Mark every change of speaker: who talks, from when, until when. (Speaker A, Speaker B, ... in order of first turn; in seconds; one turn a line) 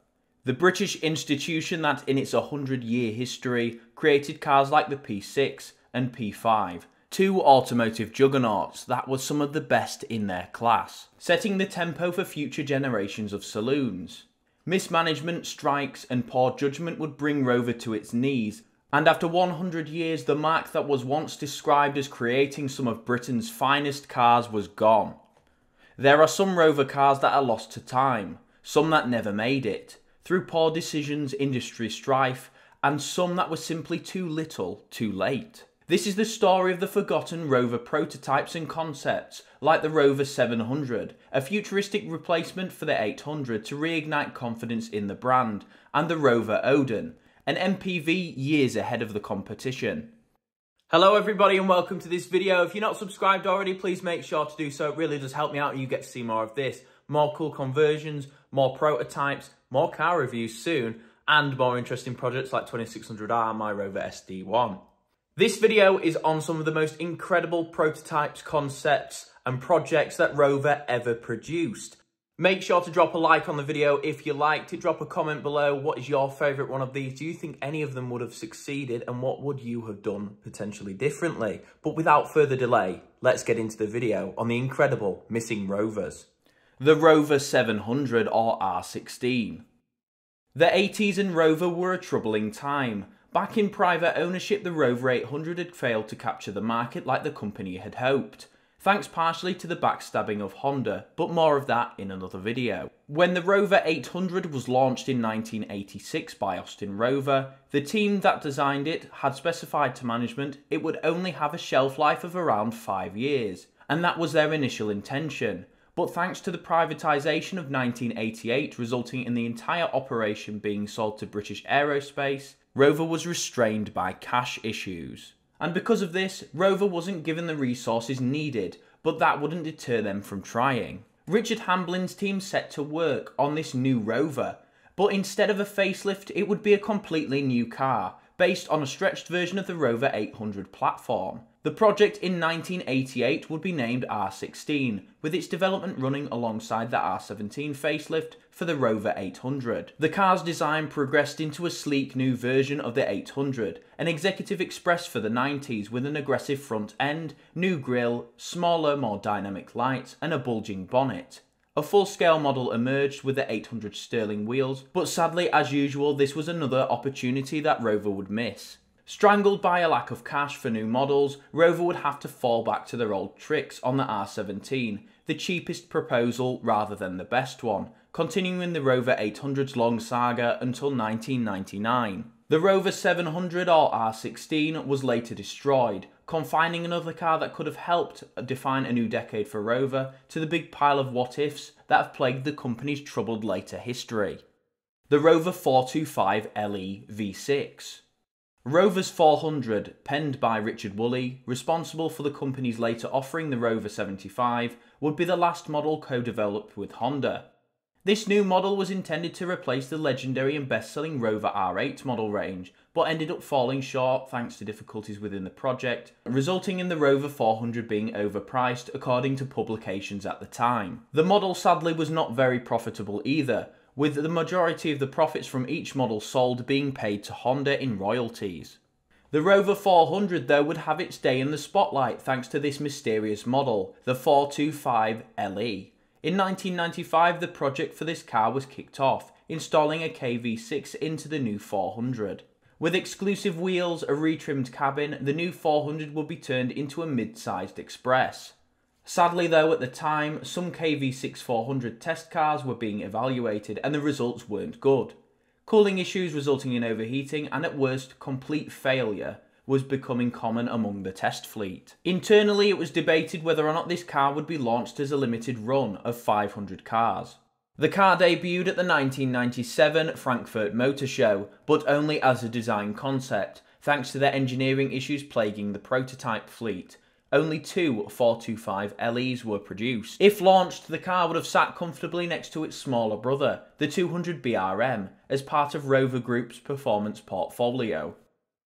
Speaker A: 0.4-25.2
Speaker A: 26.0-50.1
Speaker A: 50.9-64.8
Speaker A: 65.4-86.3
Speaker A: 86.8-89.6
Speaker A: 90.5-194.4
Speaker A: 195.1-198.0
Speaker A: 198.6-207.5
Speaker A: 208.0-228.8
Speaker A: 229.3-288.2